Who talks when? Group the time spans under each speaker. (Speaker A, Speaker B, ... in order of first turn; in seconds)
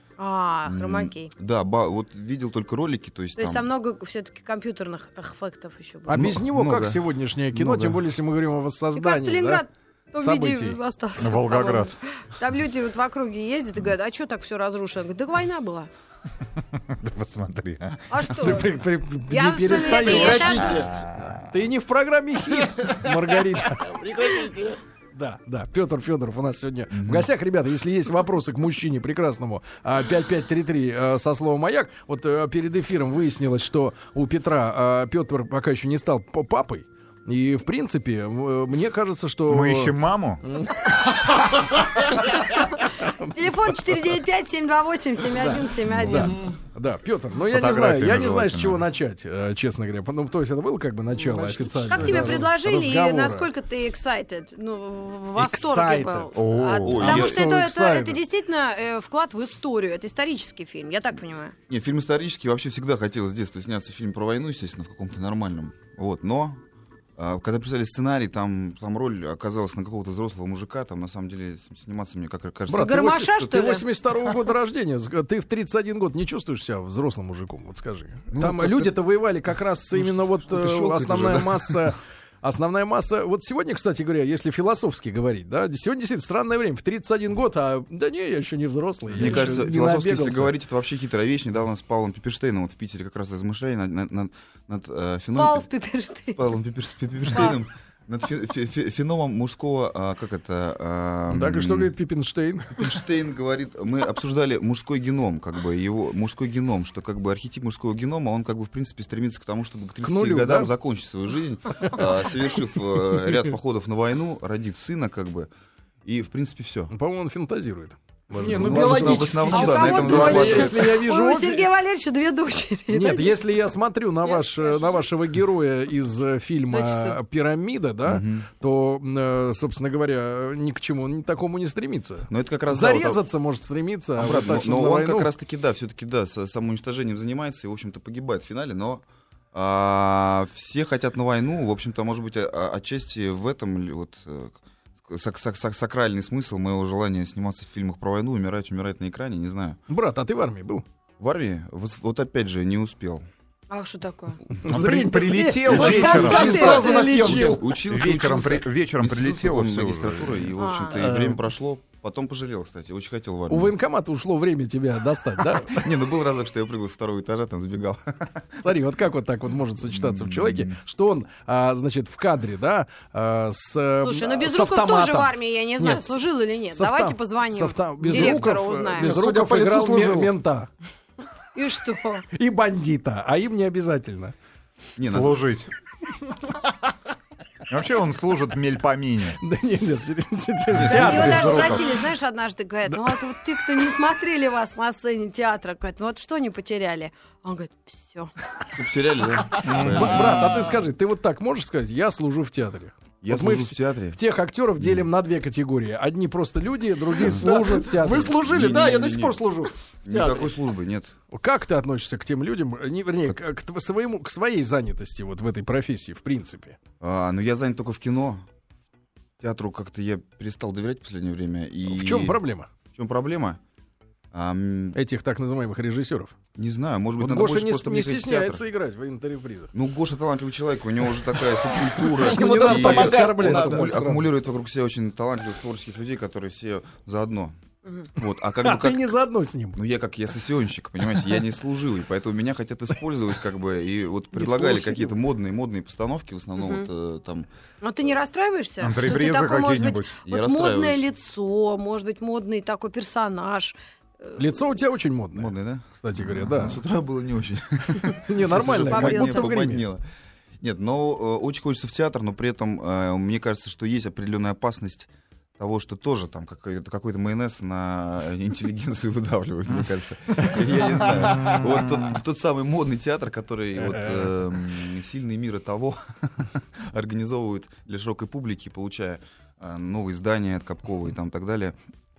Speaker A: 0.2-1.3, 3.4-6.3, 8.9-15.9, 18.1-18.7, 19.3-20.9, 43.3-46.4, 51.9-61.5, 72.7-73.8, 95.3-96.4, 97.3-97.6, 119.4-123.4, 124.2-125.0, 126.7-127.2, 153.7-154.4, 155.7-157.3, 160.6-161.0, 174.0-179.1, 181.5-182.2, 190.8-198.3, 246.6-246.9, 247.8-254.4, 258.9-259.6
Speaker B: 0.6-3.7, 6.1-8.0, 26.9-27.3, 56.8-57.4, 61.7-66.6, 67.2-72.9, 78.3-78.9, 79.9-81.9, 89.2-95.7, 96.3-101.9, 102.8-115.5, 116.0-116.9, 118.4-120.9, 128.0-128.5, 132.3-133.2, 134.2-149.8, 151.2-153.2, 155.7-163.7, 165.7-168.6, 169.9-170.8, 185.0-185.4, 190.7-191.9, 198.7-200.7, 203.2-204.2, 204.8-205.1, 207.2-209.4, 210.0-211.1, 217.0-218.4, 219.4-222.4, 222.9-223.6, 224.3-225.0, 226.6-228.6, 229.7-237.6, 238.1-239.1, 239.7-247.5, 250.2-251.0, 255.3-260.0, 260.6-281.8
Speaker C: 6.0-9.6, 10.2-10.8, 18.4-24.0, 25.1-44.1, 45.4-53.5, 55.4-56.4, 57.0-58.2, 72.7-90.5, 101.3-102.8, 110.0-110.7, 116.9-121.7, 122.9-135.3, 149.9-150.8, 154.5-157.6, 161.0-161.4, 163.5-165.9, 168.6-176.2, 176.7-180.7, 182.3-184.3, 189.4-191.8, 192.9-193.2, 199.6-209.7, 211.3-216.8, 221.9-222.7, 224.9-226.3, 227.2-229.7, 232.1-234.3, 238.6-239.8, 244.3-245.1, 254.4-256.8, 258.2-259.8, 273.8-274.2
Speaker D: 11.2-11.9, 16.8-18.0, 21.1-21.4, 39.5-40.4, 47.5-48.9, 56.3-57.2, 154.7-156.7, 157.8-160.5, 185.0-185.7, 187.7-189.4, 190.9-191.8, 199.6-200.1, 248.8-250.1
Speaker E: 20.0-21.0, 22.8-23.2, 23.7-24.8, 51.2-52.5, 118.4-120.5, 155.7-157.6, 178.1-178.4, 178.9-180.3, 207.4-210.5, 232.2-233.9